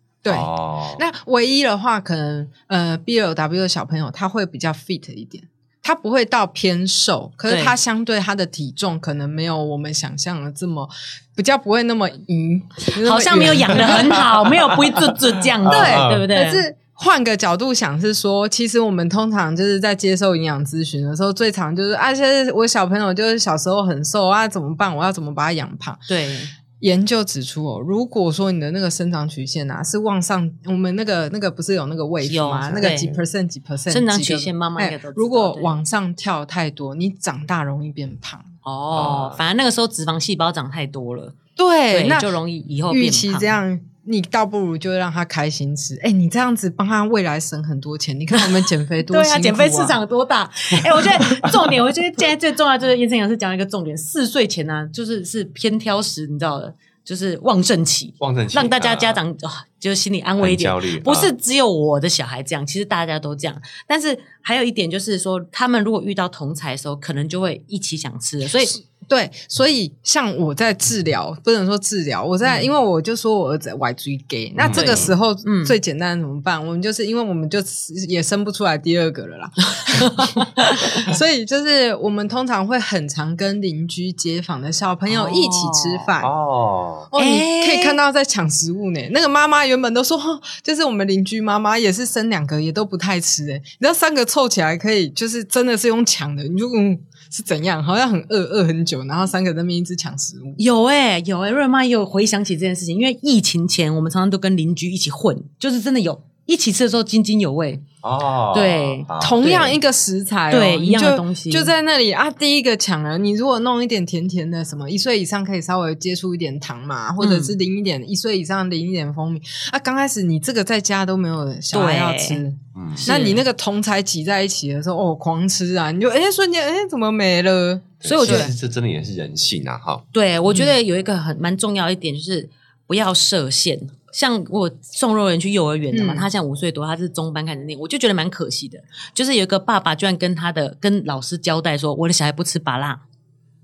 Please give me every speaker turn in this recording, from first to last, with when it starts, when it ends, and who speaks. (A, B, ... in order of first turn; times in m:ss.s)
0:00.2-0:14.3 A
0:00.3-0:01.0 B
0:07.5-0:07.8 C
0:12.9-0:16.6 C
0:13.8-0:16.2 B
0:15.7-0:26.0 A
0:26.1-0:26.5 C
0:26.8-0:38.5 A
0:32.2-0:33.1 C
0:32.7-0:33.2 B
0:33.9-0:35.7 C
0:38.6-0:41.4 C
0:38.9-0:39.4 B
0:41.6-0:42.3 A
0:41.9-0:43.5 C
0:42.9-0:50.0 A
0:48.3-1:08.8 C
0:58.2-0:59.2 B
1:00.4-1:01.3 B
1:08.7-1:26.3 A
1:14.6-1:15.1 B
1:14.7-1:15.8 C
1:19.8-1:21.1 C
1:25.1-1:26.1 C
1:26.2-1:27.1 B
1:27.1-1:40.6 A
1:27.2-1:28.0 C
1:40.6-1:47.8 C
1:48.0-1:49.7 B
1:48.5-1:49.7 C
1:49.2-2:08.5 A
1:50.5-1:51.7 C
1:57.2-1:57.5 C
2:01.7-2:02.4 C
2:02.8-2:03.1 B
2:03.0-2:03.4 C
2:08.0-2:10.0 B
2:08.2-2:08.5 C
2:10.1-2:23.0 C
2:15.9-2:16.3 A